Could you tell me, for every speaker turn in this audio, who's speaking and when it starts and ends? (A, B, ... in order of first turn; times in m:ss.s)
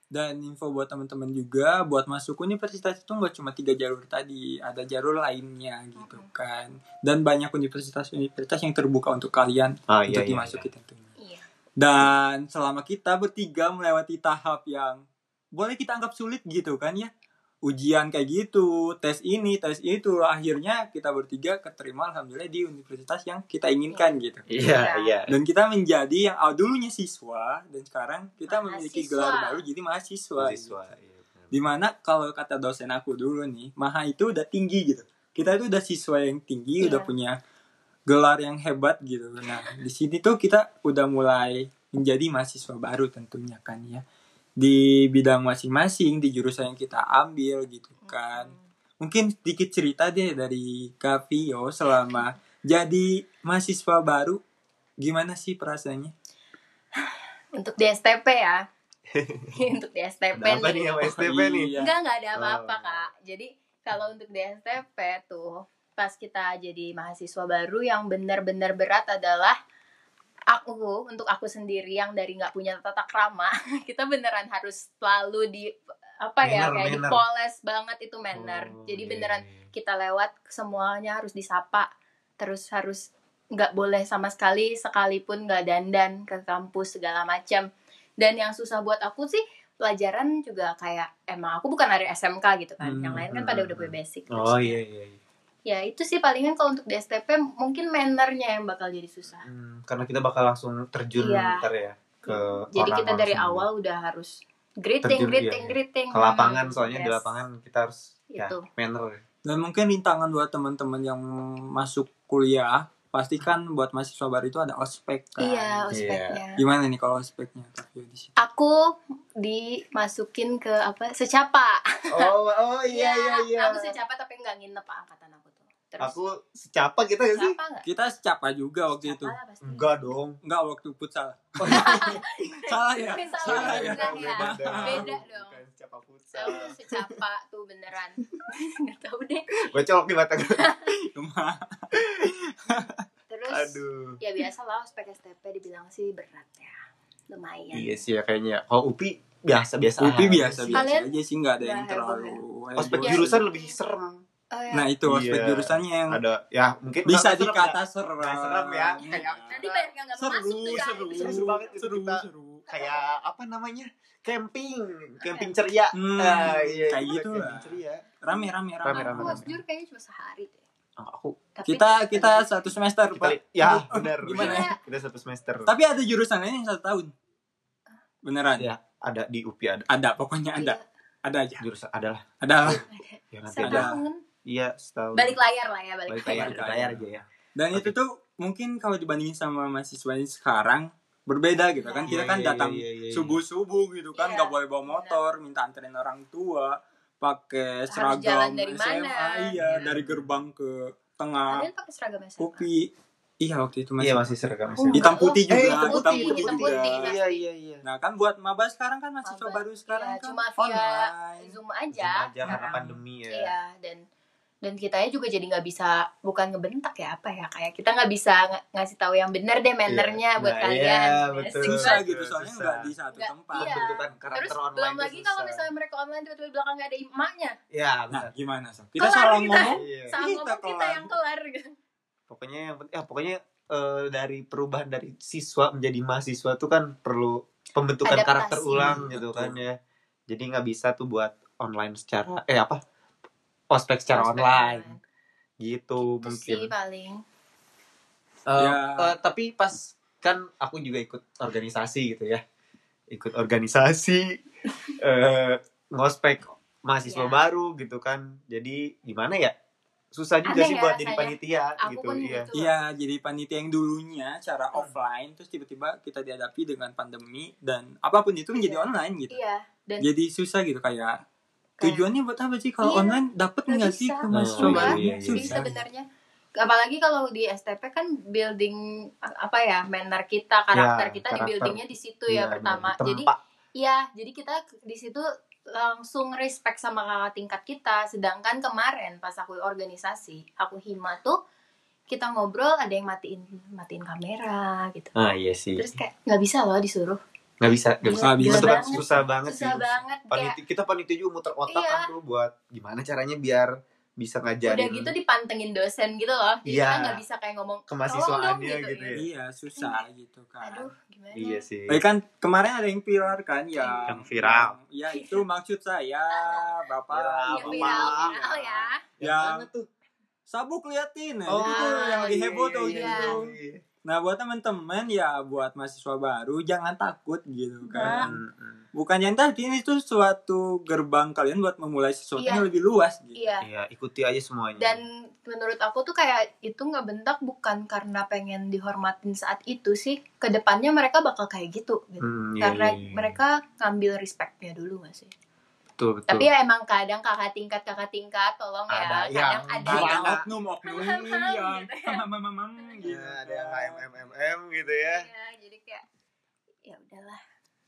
0:00.1-0:11.1 A
0:06.0-0:06.3 B
0:09.9-0:10.7 C
0:11.2-0:11.4 B
0:11.8-0:15.0 A
0:15.6-0:17.1 A
0:17.6-0:24.5 A
0:23.9-0:25.1 B
0:24.5-0:25.4 C
0:25.3-0:30.8 A
0:28.5-0:29.6 B
0:30.4-0:31.5 C
0:31.5-0:37.4 A
0:36.8-0:37.1 B
0:38.1-0:44.0 A
0:44.6-0:54.4 A
0:48.1-0:48.6 B
0:52.0-0:52.2 B
0:55.0-0:56.1 A
0:57.0-0:58.6 B
0:59.1-0:59.6 C
0:59.6-1:09.6 B
1:00.4-1:01.7 C
1:01.2-1:01.9 A
1:02.3-1:03.1 C
1:10.5-1:21.9 B
1:16.4-1:17.2 C
1:18.3-1:19.6 C
1:22.4-1:27.7 B
1:28.2-1:34.8 B
1:32.8-1:35.2 C
1:35.7-1:39.5 B
1:39.4-1:43.6 C
1:41.2-1:41.6 B
1:42.2-1:47.4 B
1:45.0-1:49.2 C
1:48.3-1:48.7 B
1:49.4-1:56.0 A
1:55.4-1:56.6 B
1:55.9-1:56.4 C
1:56.6-1:58.4 A
1:58.4-2:02.3 B
2:02.1-2:04.0 C
2:02.9-2:06.2 B
2:06.0-2:07.6 C
2:07.3-2:07.9 B
2:07.8-2:09.4 A
2:09.0-2:09.9 B
2:09.6-2:10.4 C
2:10.4-2:15.2 A
2:11.6-2:12.2 C
2:11.7-2:15.6 B
2:13.4-2:16.8 C
2:16.3-2:19.8 B
2:19.6-2:20.8 C
2:20.5-2:20.9 B
2:21.1-2:23.0 A
2:23.3-2:26.8 B
2:23.5-2:24.2 C
2:27.3-2:28.0 B
2:27.7-2:30.9 C
2:30.0-2:33.4 A
2:30.7-2:32.4 B
2:32.8-2:34.2 C
2:32.9-2:33.8 B
2:34.5-2:34.9 B
2:34.7-2:36.2 A
2:35.1-2:39.9 C
2:37.1-2:39.6 A
2:39.0-2:41.7 B
2:40.2-2:42.7 A
2:40.7-2:48.1 C
2:42.7-2:43.0 B
2:45.2-2:45.5 B
2:45.9-2:49.6 A
2:48.8-2:49.5 C
2:48.9-2:50.6 B
2:51.0-2:51.4 C
2:51.6-2:52.8 B
2:51.7-2:54.7 A
2:53.2-2:55.7 C
2:54.4-2:54.8 B
2:55.7-2:57.1 A
2:58.2-2:58.7 A
2:58.6-2:59.9 C
2:59.9-3:01.7 A
3:00.6-3:00.8 B
3:01.6-3:03.9 C
3:02.4-3:02.9 A
3:02.9-3:04.2 B
3:03.6-3:04.0 A
3:04.5-3:05.4 C
3:05.2-3:06.6 B
3:06.1-3:07.9 C
3:06.2-3:07.0 A
3:07.6-3:21.7 A
3:11.6-3:12.3 B
3:12.1-3:13.4 C
3:14.1-3:15.2 B
3:17.9-3:19.6 B
3:19.6-3:20.4 C
3:21.5-3:22.7 B
3:22.4-3:22.9 A
3:23.4-3:27.1 A
3:24.0-3:27.8 C
3:24.8-3:27.4 B
3:27.8-3:31.6 A
3:29.2-3:34.0 B
3:31.9-3:33.6 C
3:32.5-3:33.0 A
3:34.6-3:42.0 B
3:39.9-3:42.9 C
3:41.6-3:43.8 A
3:43.1-3:47.6 B
3:43.5-3:45.7 C
3:47.7-3:48.3 C
3:48.1-3:51.1 A
3:49.0-3:51.7 B
3:49.7-3:50.2 C
3:52.3-3:59.8 C
3:58.0-3:59.0 B
3:58.8-3:59.6 A
4:00.3-4:02.8 C
4:03.7-4:04.9 C
4:04.1-4:05.0 B
4:05.6-4:06.7 C
4:06.0-4:07.2 B
4:08.5-4:12.4 C
4:08.6-4:09.2 A
4:13.1-4:14.4 C
4:15.0-4:19.5 C
4:17.1-4:17.4 B
4:20.1-4:22.5 C
4:20.5-4:22.7 B
4:22.6-4:29.4 A
4:28.6-4:30.1 B
4:30.0-4:31.2 A
4:31.8-4:32.1 B
4:31.8-4:35.8 A
4:32.8-4:36.1 B
4:34.3-4:35.7 C
4:36.6-4:51.4 B
4:40.7-4:43.4 C
4:52.1-4:55.1 B
4:55.2-4:55.9 C
4:55.8-4:57.2 B
4:57.6-5:05.1 C
4:58.1-5:00.6 B
4:58.2-4:59.3 A
5:01.7-5:02.1 B
5:04.7-5:09.2 B
5:06.7-5:07.2 C
5:07.9-5:09.2 C
5:09.2-5:10.9 A
5:09.8-5:10.0 B
5:10.6-5:11.7 B
5:11.3-5:12.0 C
5:11.9-5:18.5 A
5:13.8-5:14.1 B
5:14.1-5:14.8 C
5:15.1-5:15.4 B
5:16.4-5:19.9 C
5:17.5-5:19.0 B
5:19.2-5:19.7 A
5:20.5-5:23.5 A
5:21.5-5:23.8 C
5:21.6-5:23.4 B
5:24.0-5:28.4 A
5:27.8-5:28.3 B
5:28.0-5:28.8 C
5:28.9-5:33.4 A
5:32.4-5:32.7 B
5:33.4-5:33.7 B
5:33.6-5:35.0 C
5:34.8-5:45.3 B
5:42.2-5:43.4 C
5:46.0-5:46.5 C
5:46.3-5:52.2 B
5:48.9-5:50.5 C
5:49.9-5:54.0 A
5:52.8-5:53.1 B
5:53.0-5:55.3 C
5:55.0-5:56.0 B
5:56.8-5:57.4 B